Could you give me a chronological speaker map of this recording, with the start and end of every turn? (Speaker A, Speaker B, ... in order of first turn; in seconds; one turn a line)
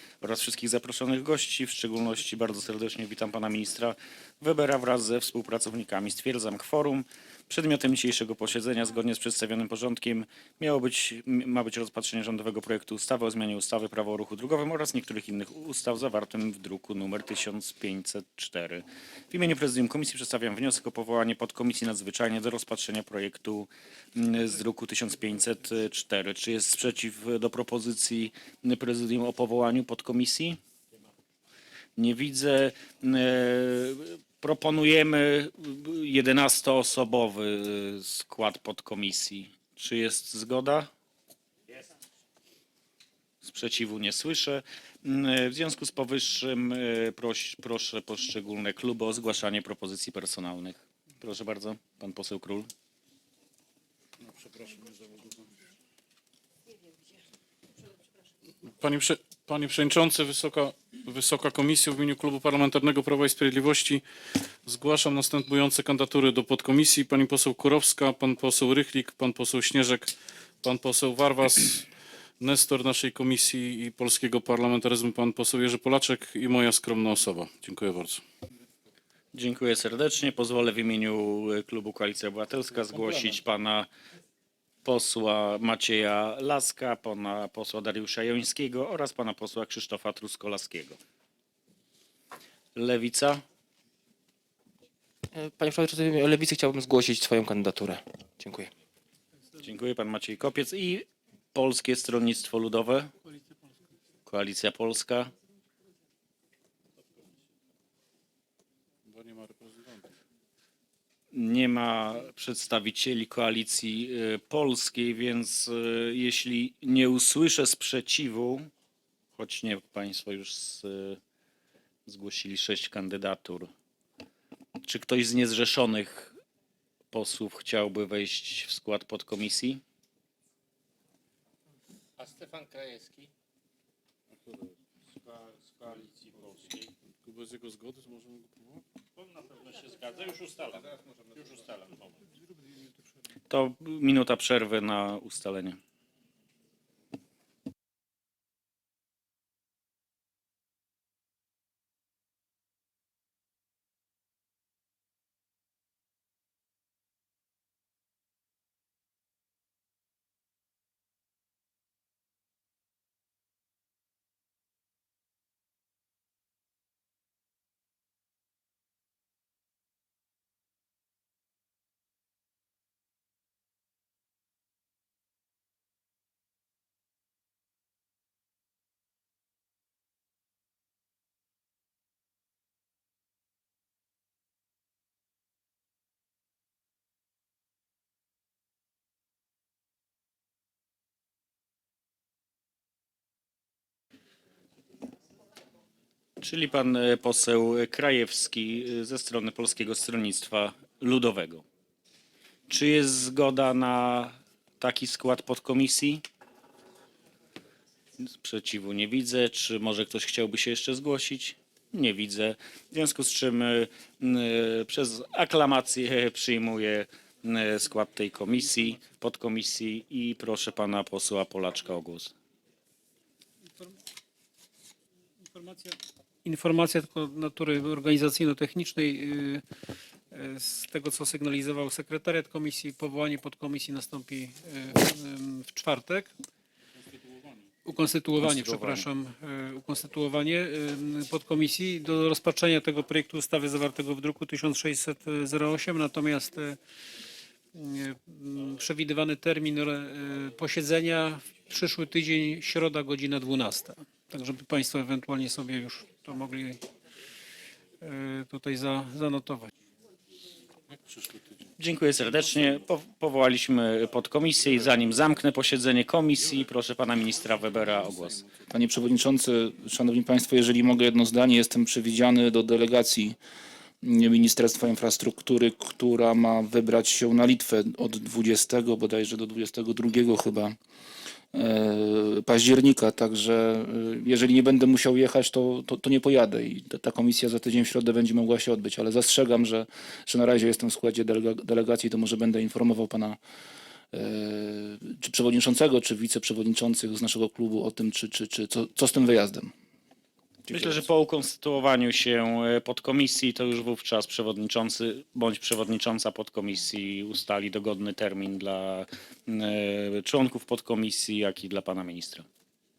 Speaker A: 0.2-30.6
Speaker A: 32.0-40.9
Speaker A: 43.4-52.7
Speaker B: 54.4-55.3
Speaker B: 58.8-64.0
Speaker B: 64.7-70.1
Speaker B: 70.6-71.9
Speaker B: 72.4-78.2
Speaker A: 79.3-83.9
Speaker A: 84.8-91.0
Speaker A: 92.8-93.4
Speaker C: 95.3-98.7
Speaker A: 99.6-103.1
Speaker A: 104.3-105.3
Speaker B: 109.1-110.1
Speaker A: 111.3-118.7
Speaker A: 119.4-121.2
Speaker A: 122.1-123.7
Speaker A: 124.8-126.4
Speaker A: 127.1-129.8
Speaker D: 132.2-133.3
Speaker D: 135.2-136.9
Speaker B: 137.2-138.8
Speaker D: 139.3-141.7
Speaker A: 143.5-145.8
Speaker A: 196.4-201.6
Speaker A: 202.7-206.2
Speaker A: 208.2-222.3
Speaker E: 225.4-229.6
Speaker E: 230.3-236.3
Speaker E: 237.8-246.8
Speaker A: 238.4-239.1
Speaker E: 247.7-256.8
Speaker E: 258.0-259.7
Speaker A: 261.8-268.4
Speaker F: 268.7-273.4
Speaker F: 274.0-280.8
Speaker F: 281.5-293.4
Speaker F: 294.1-299.7
Speaker A: 300.7-312.5